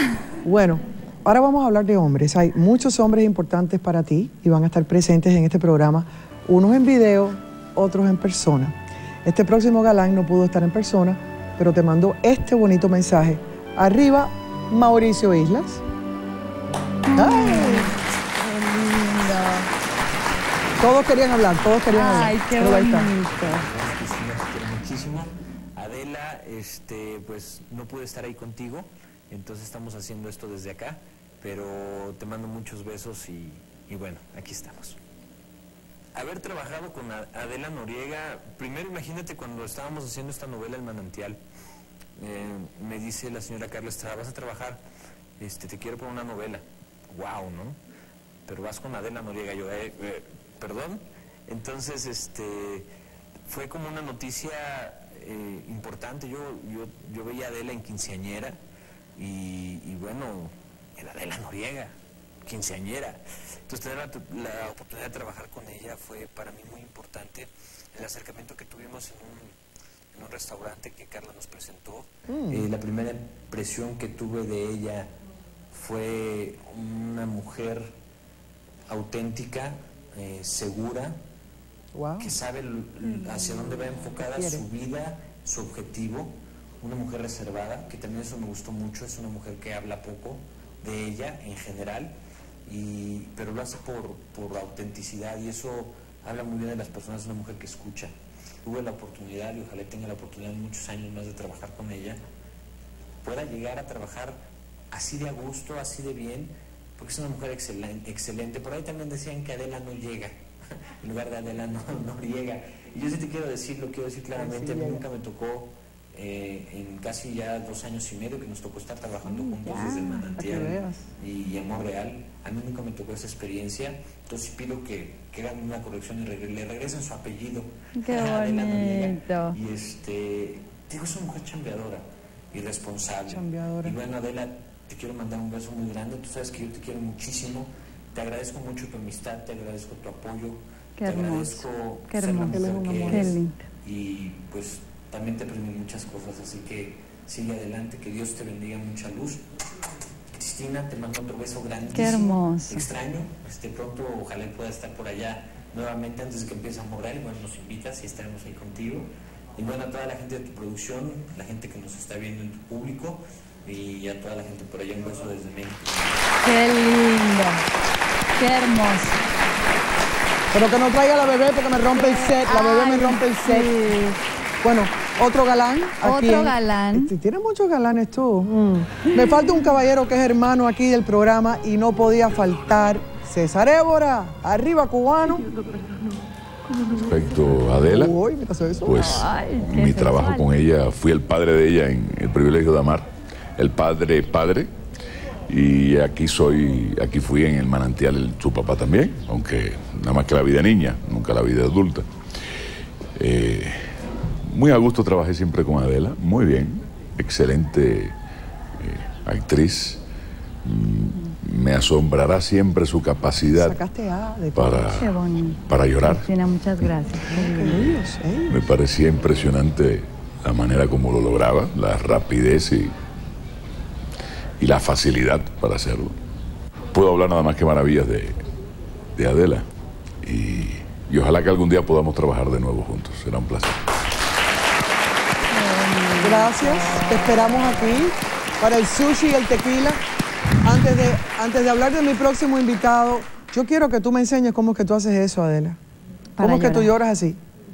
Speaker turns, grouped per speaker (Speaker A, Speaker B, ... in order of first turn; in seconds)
Speaker A: 0.4-15.8, 17.1-17.9, 20.8-23.1, 72.3-72.7, 81.9-82.3, 84.3-84.6, 114.3-115.0, 120.4-121.0, 133.3-134.0, 142.5-143.4, 170.5-173.8, 174.6-185.5, 187.7-189.1, 213.4-214.9, 217.3-218.6, 236.2-240.0, 240.6-245.8, 246.4-247.4
Speaker B: 17.1-19.7, 21.9-23.6, 83.2-83.8, 119.2-120.3, 127.9-129.6, 141.0-143.6, 151.9-152.8, 166.4-167.6, 168.4-169.2, 171.9-174.2, 176.0-177.1, 179.1-179.5, 188.9-190.5, 214.8-217.9, 235.5-238.0, 246.4-246.9
Speaker C: 23.2-35.0, 36.1-41.4, 42.2-44.8, 45.4-47.8, 48.5-52.9, 53.4-58.6, 59.1-69.6, 70.1-75.1, 75.7-77.9, 78.9-81.2, 82.2-92.1, 92.6-102.2, 103.2-104.4, 104.9-149.4, 150.3-166.3
Speaker D: 187.0-188.1, 188.8-194.7, 195.5-202.1, 203.2-203.9, 204.4-208.1, 208.8-210.0, 210.6-213.8, 214.6-215.1, 215.7-216.3, 218.5-222.9, 224.6-226.1, 226.9-228.4, 229.2-229.6, 230.2-233.8